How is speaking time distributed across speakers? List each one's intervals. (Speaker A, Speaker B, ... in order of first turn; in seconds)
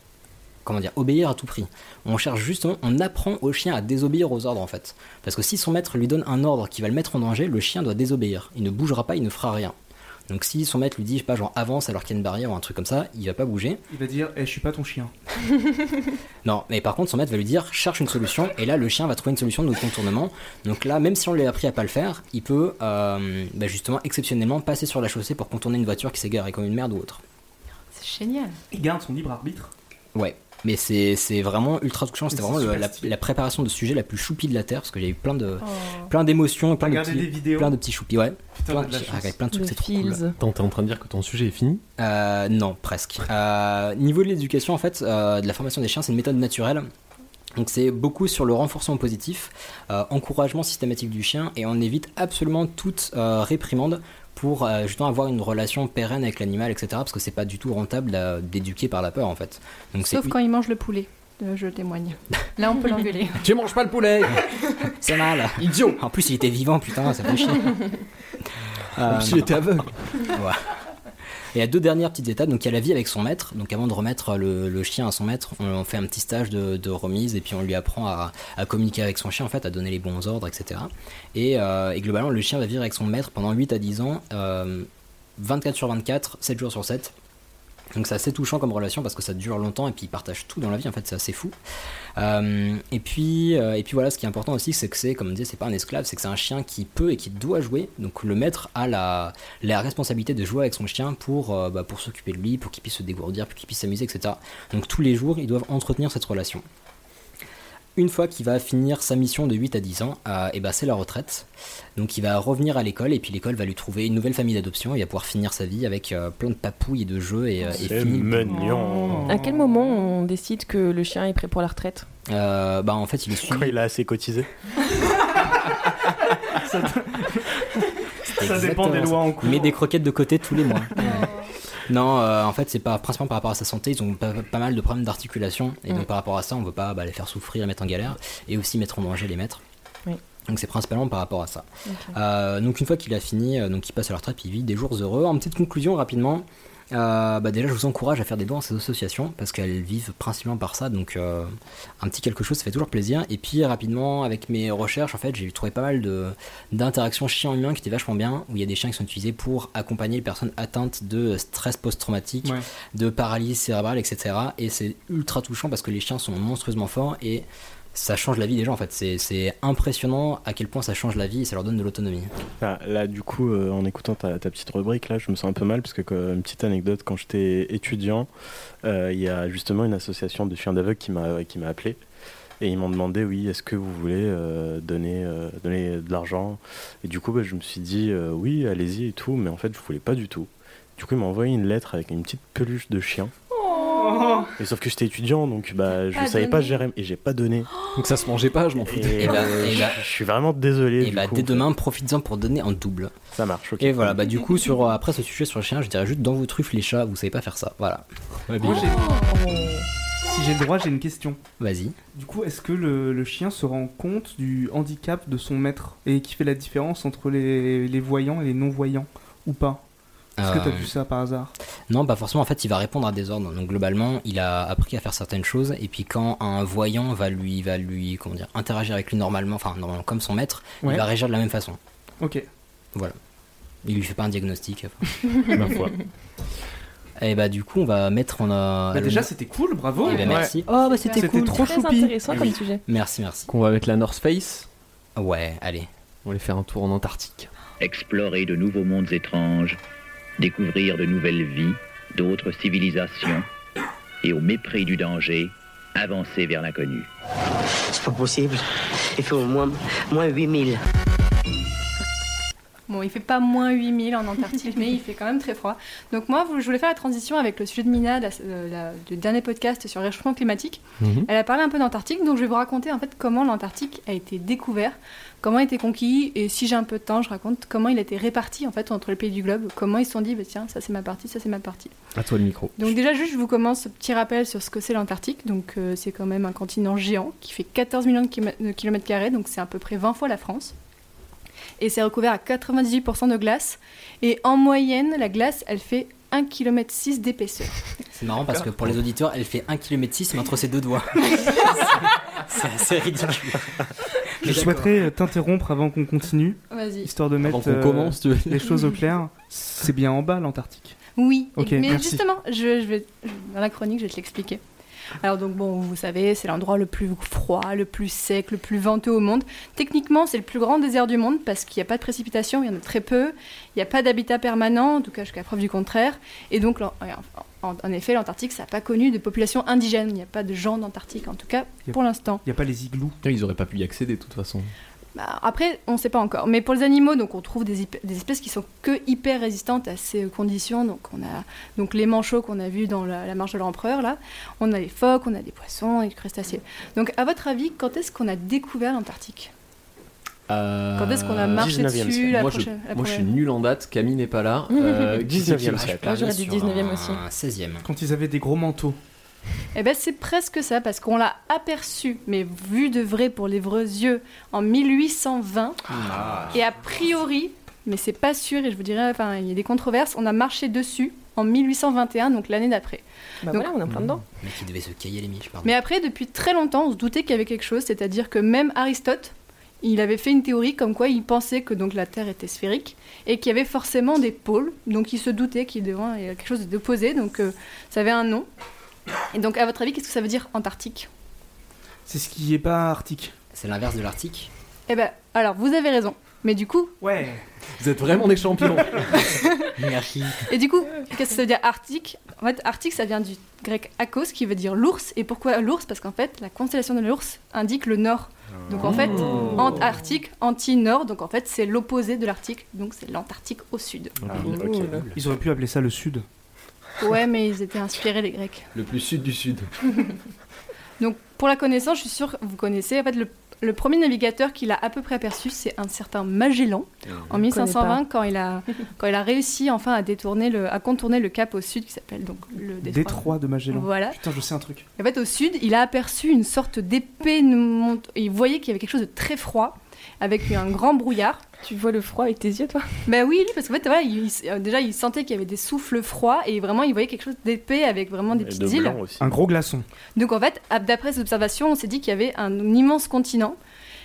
Speaker A: 0.6-9.7, 10.3-13.8, 16.4-27.2, 30.1-40.2, 42.0-46.9, 47.5-60.3, 65.0-67.8, 69.0-70.7, 71.5-87.1, 87.9-91.5, 92.2-106.6, 108.0-118.5, 122.3-123.7, 128.3-131.3, 131.8-139.6, 140.5-172.3, 199.2-200.0, 201.0-203.1, 203.8-208.0, 211.6-211.9, 220.4-220.9, 221.9-231.8, 233.8-235.4, 237.2-239.3, 240.0-241.4, 242.3-243.5, 245.2-245.9, 298.1-303.9, 304.4-305.0, 355.7-357.9, 365.9-366.6, 374.4-375.8, 393.5-394.5, 399.8-400.5
Speaker B: 13.9-15.1, 28.7-29.7, 32.3-33.1, 36.8-37.7, 38.5-39.4, 118.5-120.0, 126.3-129.8, 194.0-194.5, 208.6-209.2, 210.2-211.4, 212.1-219.8, 220.4-221.5, 232.2-232.4, 238.9-240.6, 241.1-242.3, 304.4-311.0, 311.6-312.2, 331.9-333.2, 357.8-359.0, 392.1-393.3, 397.0-397.4, 415.1-416.2, 432.8-434.8, 449.2-449.8
Speaker C: 27.9-28.6, 35.6-36.1, 60.1-63.4, 196.1-196.8, 240.0-241.4, 262.9-281.9, 282.8-290.7, 291.8-297.8, 306.7-307.1, 311.1-314.6, 315.2-332.4, 335.1-349.5, 350.9-353.3, 359.7-365.8, 366.5-373.7, 375.6-388.5, 389.3-391.1, 394.9-396.9, 399.3-399.7, 400.5-414.2, 417.0-418.7, 421.0-434.2, 435.0-441.4, 443.1-449.0, 450.1-453.6
Speaker D: 39.5-40.4, 119.3-122.1, 141.9-142.1, 193.5-194.5, 208.8-209.8, 241.2-242.8, 354.7-355.2, 356.0-357.2, 373.4-374.2, 414.5-415.0, 427.5-428.0, 441.6-443.0
Speaker E: 40.4-41.8, 63.4-64.6, 65.6-66.0, 69.0-70.0, 197.9-199.8, 208.5-208.9, 243.5-244.7, 246.2-247.5, 271.0-271.3, 282.1-282.9, 307.4-308.8, 333.2-334.7, 350.5-351.8, 352.3-356.1, 397.8-399.3, 408.8-409.8, 418.7-419.7
Speaker F: 117.8-119.3, 123.4-124.5, 172.6-178.3, 178.8-182.0, 182.6-193.3, 194.6-197.7, 198.9-201.7, 203.3-204.2, 235.6-235.9, 351.6-352.4, 355.2-356.1, 414.2-415.1, 448.3-449.3
Speaker G: 247.8-249.8, 250.4-253.5, 254.2-257.1
Speaker H: 257.9-260.8